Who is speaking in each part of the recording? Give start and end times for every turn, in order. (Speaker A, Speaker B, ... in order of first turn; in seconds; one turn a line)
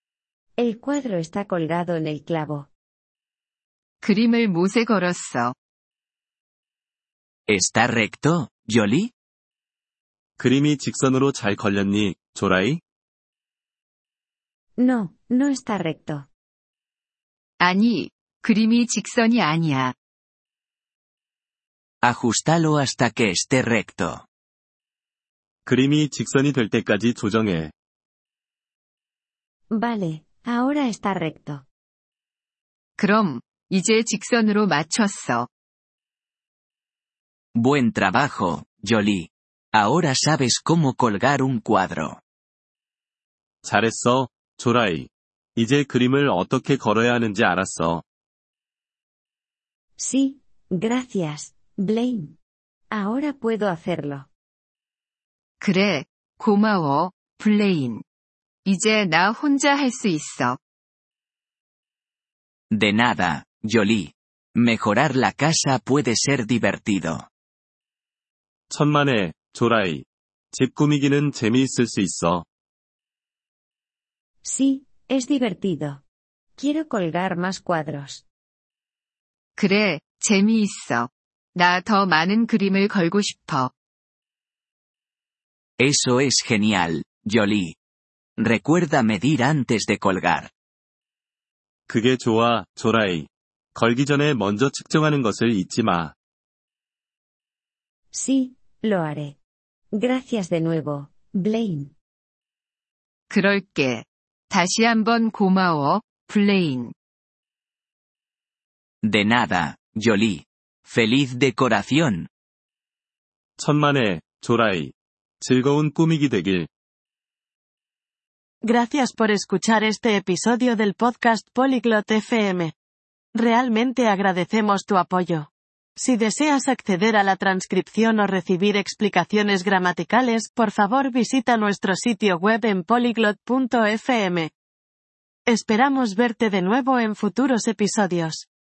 Speaker A: 0.6-2.7
Speaker B: 4.0-5.5
Speaker C: 7.5-9.1
Speaker D: 10.4-12.8
Speaker A: 14.8-16.3
Speaker B: 17.6-19.9
Speaker C: 22.0-24.3
Speaker D: 25.6-27.7
Speaker A: 29.7-31.6
Speaker B: 33.0-35.5
Speaker C: 37.5-42.2
Speaker D: 43.6-48.0
Speaker A: 50.0-52.4
Speaker A: 52.9-54.3
Speaker B: 55.6-58.0
Speaker B: 58.6-60.6
Speaker C: 62.7-67.3
Speaker D: 68.7-72.4
Speaker A: 74.4-76.0
Speaker A: 76.6-78.2
Speaker B: 79.6-83.7
Speaker C: 85.8-87.8
Speaker C: 88.4-90.5
Speaker D: 91.9-96.1
Speaker A: 98.1-99.4
Speaker A: 100.0-101.9
Speaker B: 103.3-106.9
Speaker C: 109.0-112.3
Speaker D: 113.6-116.7
Speaker E: 118.6-122.7
Speaker E: 123.3-134.5
Speaker E: 135.5-138.5